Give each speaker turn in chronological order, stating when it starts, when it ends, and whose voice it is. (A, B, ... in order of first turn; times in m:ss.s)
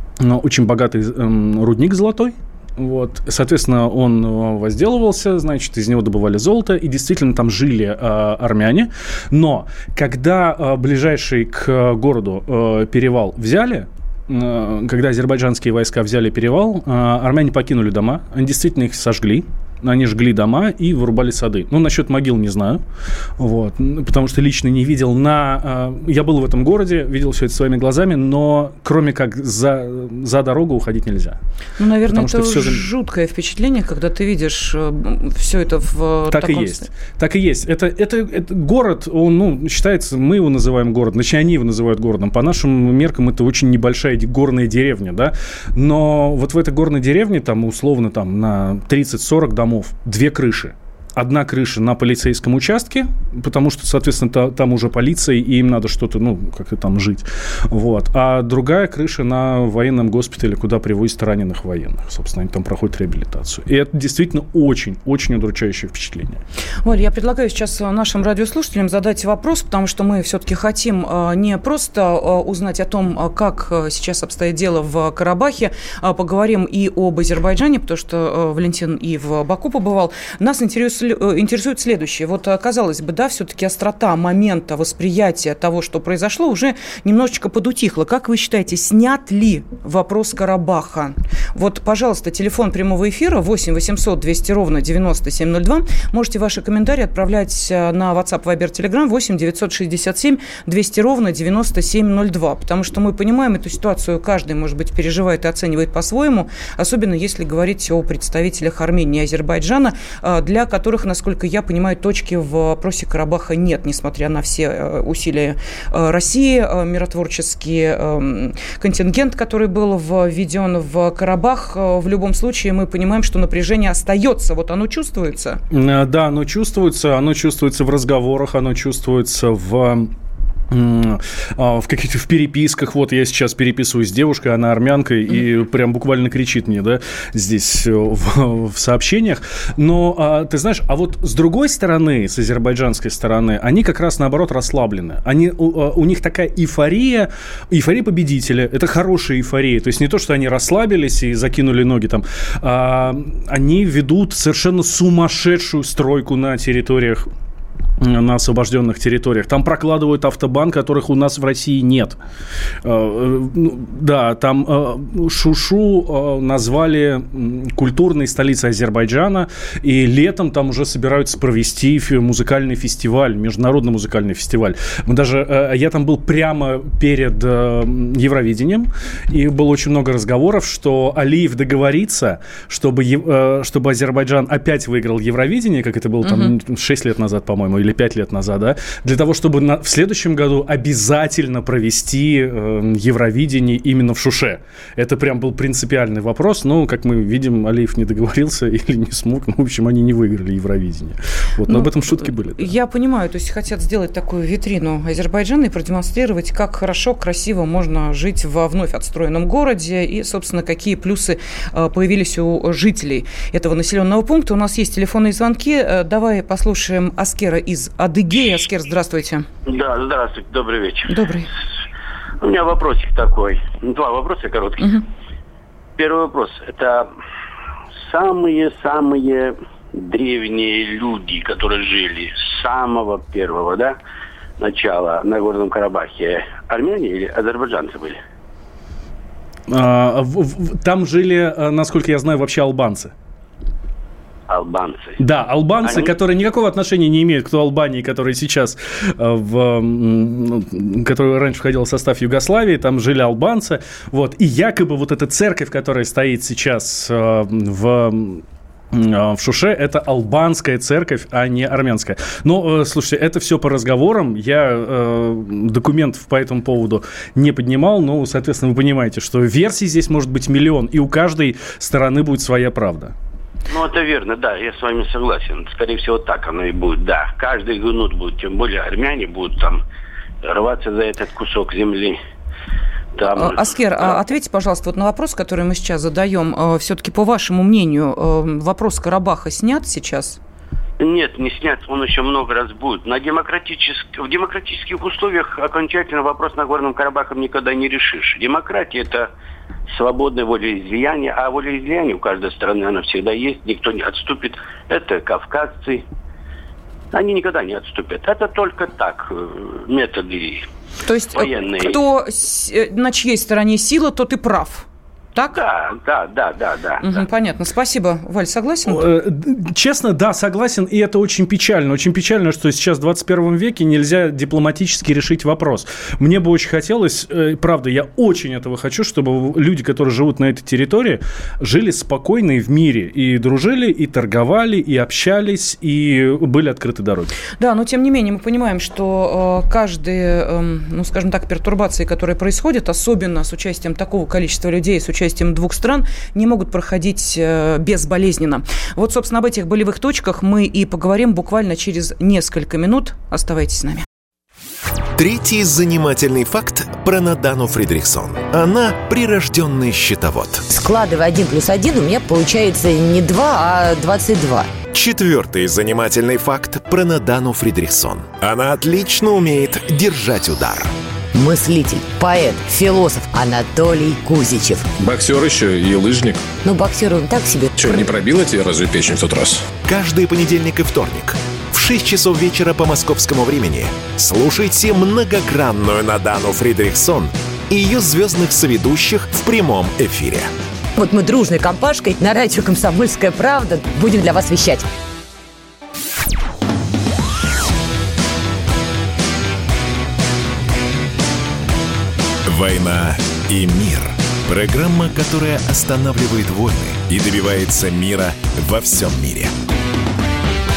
0:00.2-0:22.8 A
0:23.4-0:31.4 A
0:31.8-0:36.9 B
0:32.1-0:32.9 A
0:36.3-1:06.4 A
1:06.8-2:05.6 B
2:05.7-2:10.1 A
2:10.7-2:37.3 A
2:38.0-2:42.2 A
2:42.8-3:22.7 A
3:06.2-3:06.5 B
3:21.7-3:39.4 B
3:39.7-3:41.1 C
3:41.1-3:41.5 B
3:42.4-3:44.9 C
3:46.0-3:47.1 C
3:48.0-3:54.0 C
3:54.6-3:58.2 C
3:59.7-4:03.1 A
4:04.5-4:05.2 C
4:05.2-4:33.1 A
4:05.8-4:06.2 C
4:33.7-4:39.8 C
4:40.4-4:42.2 C
4:43.2-4:44.2 C
4:43.3-4:50.4 B
4:51.0-4:59.3 C
4:59.9-5:06.0 C
5:07.1-5:10.6 C
5:11.0-5:15.6 B
5:11.3-5:12.0 C
5:15.5-5:17.2 C
5:17.0-5:19.0 B
5:18.9-5:37.4 A
5:37.6-5:54.0 B
5:55.1-6:00.6 D
6:00.7-6:04.7 E
6:04.9-6:10.9 D
6:11.3-6:14.8 E
6:15.0-6:16.5 F
6:16.6-6:18.0 E
6:17.8-6:19.6 F
6:19.8-6:30.5 D
6:31.0-6:34.8 E
6:42.4-6:49.5 D